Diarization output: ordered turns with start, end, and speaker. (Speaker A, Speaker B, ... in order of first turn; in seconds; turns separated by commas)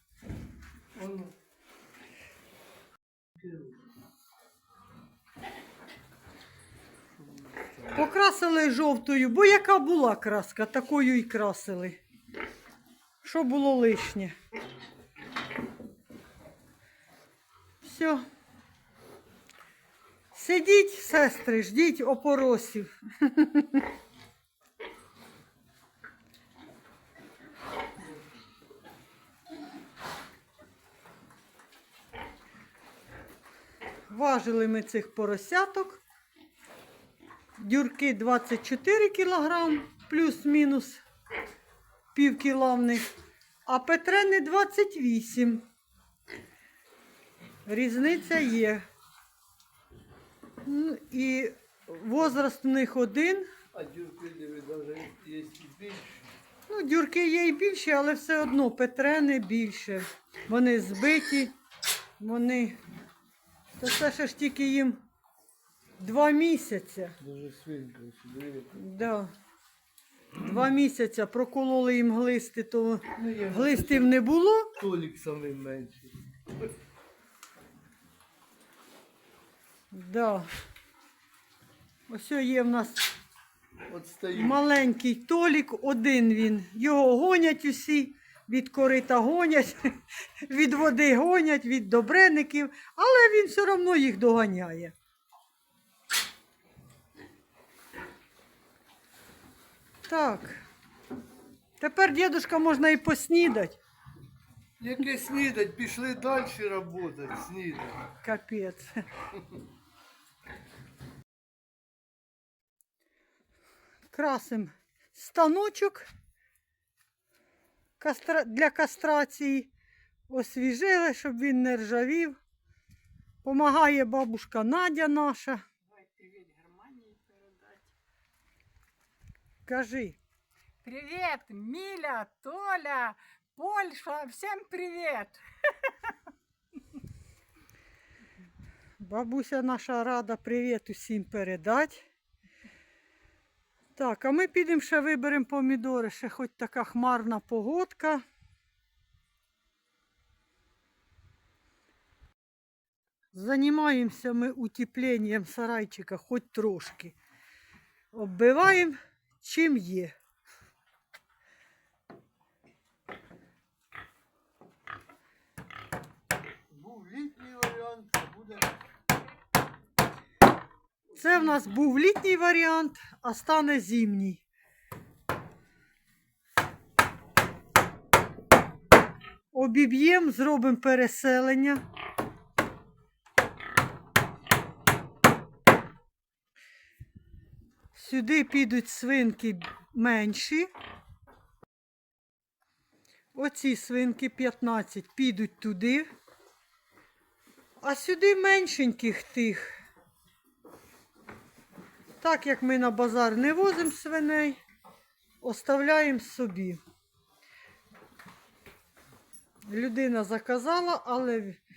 Speaker A: 1.0-1.3, Speaker A: 7.4-7.9, Speaker B: 7.9-12.0, Speaker B: 13.2-14.3, Speaker B: 17.8-18.2, Speaker B: 20.3-23.9, Speaker B: 34.1-36.0, Speaker B: 37.6-41.0, Speaker B: 42.1-43.0, Speaker B: 43.6-45.6, Speaker B: 47.6-48.8, Speaker B: 50.6-53.5, Speaker A: 53.7-56.3, Speaker B: 56.7-61.5, Speaker B: 62.2-62.8, Speaker B: 63.8-65.0, Speaker B: 66.0-67.2, Speaker A: 67.2-68.7, Speaker B: 68.7-69.3, Speaker B: 70.4-74.7, Speaker A: 73.2-74.1, Speaker A: 74.8-76.1, Speaker B: 79.9-80.5, Speaker B: 82.1-83.0, Speaker A: 83.9-84.7, Speaker B: 84.3-94.9, Speaker B: 100.0-100.7, Speaker B: 101.8-103.8, Speaker A: 104.8-108.1, Speaker B: 108.2-109.0, Speaker B: 114.1-116.1, Speaker B: 118.0-119.7, Speaker B: 120.3-122.4, Speaker B: 123.4-125.6, Speaker C: 125.9-127.9, Speaker B: 129.7-130.2, Speaker C: 130.8-135.9, Speaker B: 139.0-142.1, Speaker B: 143.9-148.2, Speaker B: 153.3-157.2, Speaker B: 158.1-160.1, Speaker A: 166.7-168.7, Speaker B: 171.1-174.4, Speaker B: 179.5-181.8, Speaker B: 187.9-190.7, Speaker B: 193.3-196.1, Speaker B: 197.8-199.7, Speaker B: 202.2-204.6, Speaker B: 205.4-206.8, Speaker B: 209.7-211.6